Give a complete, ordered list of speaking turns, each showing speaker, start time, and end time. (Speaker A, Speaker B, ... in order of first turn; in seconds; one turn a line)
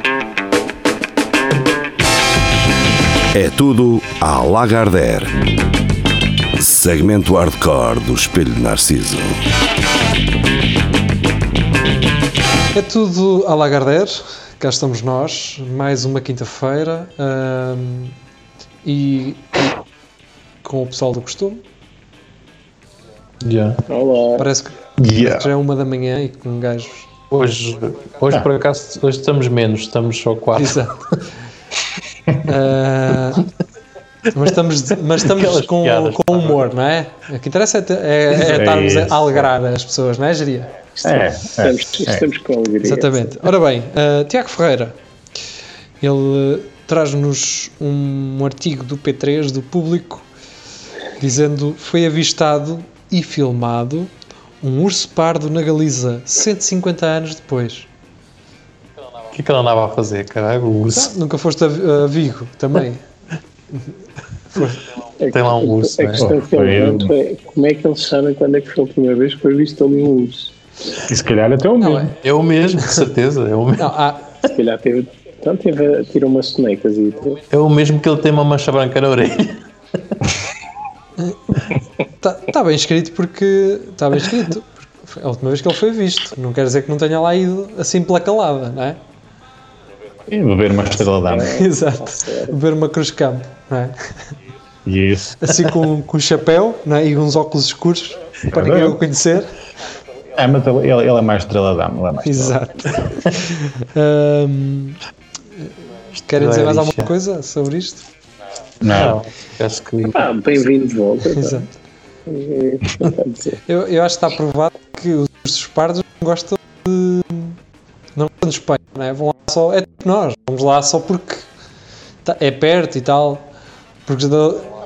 Speaker A: 3.3-5.4
Speaker A: 6.5-9.5
Speaker B: 12.7-18.1
Speaker B: 18.8-19.7
Speaker B: 20.6-21.6
Speaker C: 23.4-23.8
Speaker D: 23.9-24.5
Speaker B: 24.4-27.1
Speaker E: 25.0-25.5
Speaker C: 27.3-31.2
Speaker B: 30.6-31.0
Speaker B: 32.4-33.5
Speaker B: 34.3-40.9
Speaker C: 35.3-36.6
Speaker E: 38.3-39.5
Speaker E: 41.0-42.3
Speaker D: 41.0-43.2
Speaker B: 42.8-45.0
Speaker B: 46.0-50.2
Speaker B: 51.2-57.9
Speaker C: 59.3-61.1
Speaker B: 60.9-63.0
Speaker B: 64.5-64.8
Speaker D: 65.2-70.5
Speaker C: 65.3-66.3
Speaker E: 66.2-67.1
Speaker E: 71.0-72.1
Speaker B: 71.8-72.1
Speaker C: 72.2-74.0
Speaker B: 73.8-74.3
Speaker D: 74.5-77.4
Speaker C: 77.5-79.6
Speaker B: 82.2-89.0
Speaker E: 90.3-91.5
Speaker D: 91.2-92.6
Speaker B: 91.4-94.0
Speaker E: 94.8-95.5
Speaker B: 95.4-99.5
Speaker E: 98.5-99.0
Speaker E: 100.3-102.6
Speaker B: 102.2-105.0
Speaker C: 106.3-107.1
Speaker B: 106.3-108.0
Speaker E: 108.8-109.2
Speaker C: 108.9-110.2
Speaker D: 110.1-111.6
Speaker B: 111.3-111.7
Speaker D: 112.3-113.6
Speaker B: 113.7-117.6
Speaker B: 118.1-121.5
Speaker B: 122.2-123.5
Speaker B: 124.0-124.7